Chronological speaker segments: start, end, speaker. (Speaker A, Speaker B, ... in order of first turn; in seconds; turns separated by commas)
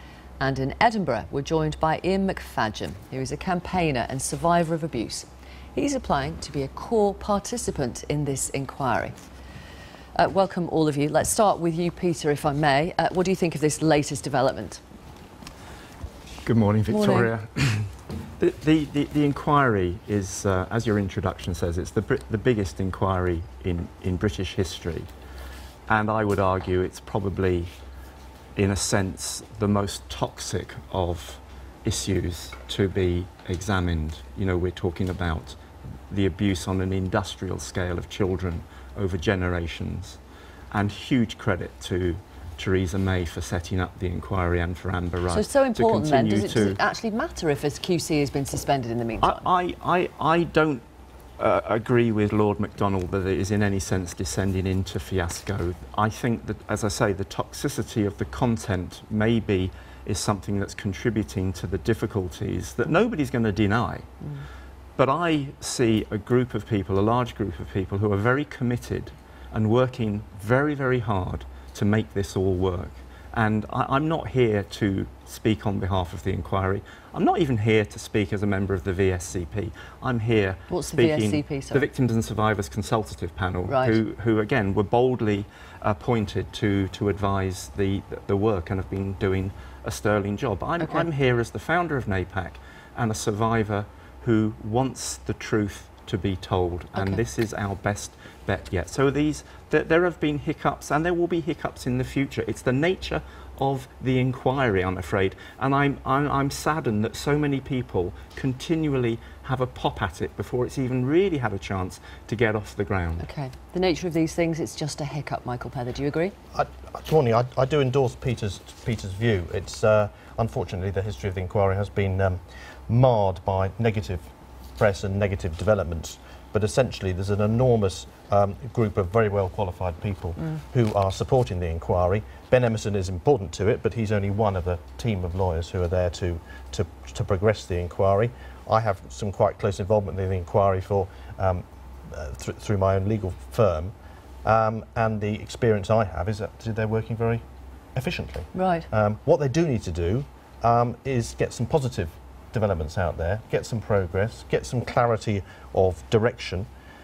Speaker A: 0.4-9.1, Speaker A: 10.2-14.8, Speaker B: 16.4-25.1, Speaker A: 16.9-17.3, Speaker B: 25.9-27.7, Speaker B: 28.6-40.2, Speaker B: 40.7-46.8, Speaker A: 45.3-49.4, Speaker B: 49.2-50.8, Speaker B: 51.4-64.1, Speaker B: 65.0-113.2, Speaker A: 80.7-81.8, Speaker A: 83.7-84.0, Speaker A: 90.8-91.1, Speaker A: 113.2-116.3, Speaker C: 116.5-147.4, Speaker C: 147.9-156.7, Speaker A: 148.5-148.9